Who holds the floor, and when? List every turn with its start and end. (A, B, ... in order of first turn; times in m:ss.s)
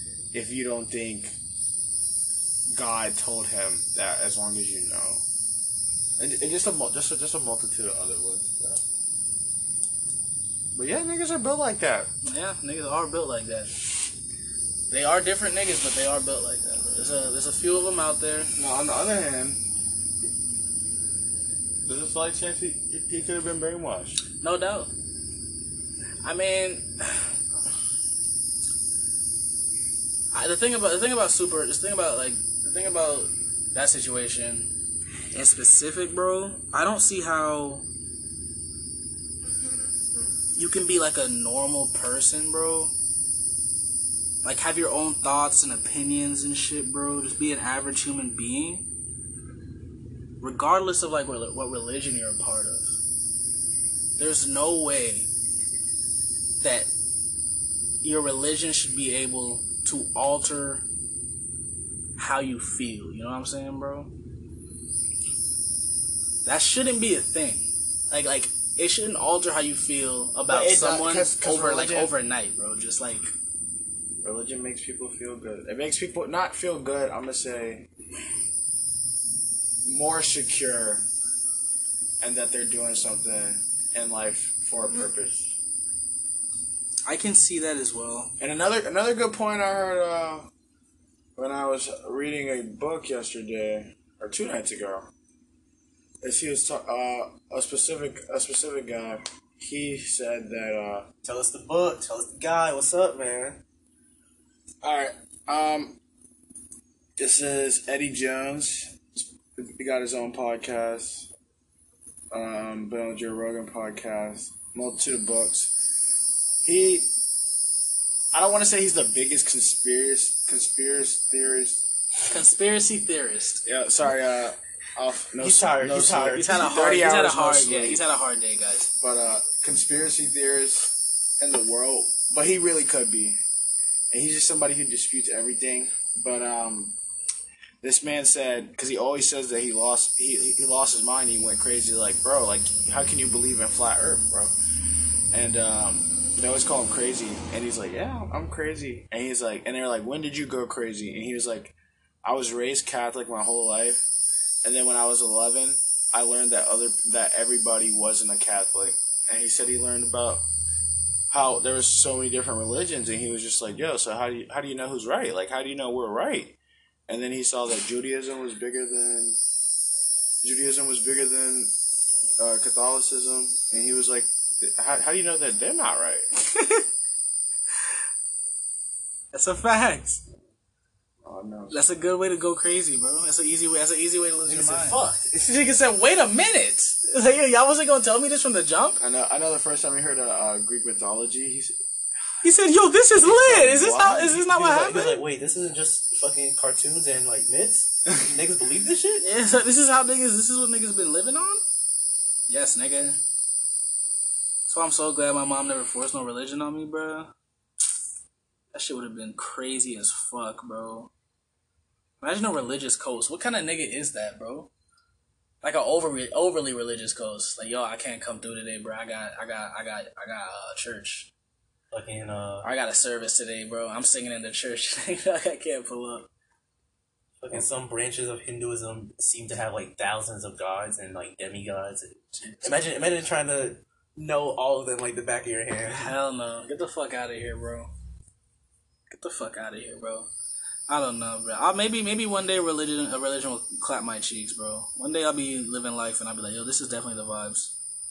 0:00.3-0:01.4 A
0:02.7-0:05.2 A
0:06.2-0:08.8 A
0:10.8-0:12.1 A
0:12.2-0:13.7 B
0:14.9-0:18.5 B
0:18.6-0:19.6 A
0:21.8-0:24.2 A
0:24.4-0:24.9 B
0:26.2-0:27.3 B
0:30.3-0:34.7 B
0:35.3-0:37.8 B
0:40.6-0:42.9 B
0:44.4-0:48.9 B
0:50.4-0:53.0 B
0:54.2-0:55.3 B
0:56.6-0:56.9 B
0:58.0-1:00.8 B
1:02.2-1:04.1 B
1:06.4-1:13.3 B
1:10.5-1:12.1 A
1:14.2-1:17.9 A
1:19.8-1:21.1 A
1:22.2-1:25.6 A
1:27.1-1:28.3 B
1:28.4-1:30.5 A
1:31.4-1:35.1 A
1:36.2-1:41.1 A
1:41.2-1:43.6 C
1:44.8-1:46.0 A
1:47.2-1:51.3 A
1:52.3-1:55.8 A
1:56.6-1:57.1 A
1:58.3-2:01.9 A
2:02.3-2:03.6 B
2:03.6-2:08.0 A
2:05.4-2:06.4 C
2:06.2-2:08.9 B
2:09.0-2:13.4 A
2:14.1-2:17.0 A
2:17.8-2:24.6 A
2:25.3-2:34.1 A
2:34.6-2:40.4 A
2:41.3-2:49.4 A
2:50.4-2:51.7 A
2:52.4-2:56.3 A
2:56.4-2:56.8 B
2:59.3-3:00.2 B
3:01.2-3:01.9 A
3:01.7-3:09.0 B
3:04.5-3:05.3 C
3:09.0-3:11.8 A
3:12.4-3:15.2 B
3:13.1-3:14.9 A
3:14.7-3:19.3 C
3:19.2-3:21.6 B
3:22.5-3:23.2 B
3:24.7-3:27.3 B
3:28.7-3:31.1 B
3:32.2-3:34.7 B
3:35.6-3:41.3 B
3:41.9-3:42.7 C
3:42.6-3:46.3 B
3:47.4-3:56.2 C
3:52.4-3:52.8 B
3:55.9-3:57.9 B
3:59.1-4:00.3 B
4:00.9-4:07.8 B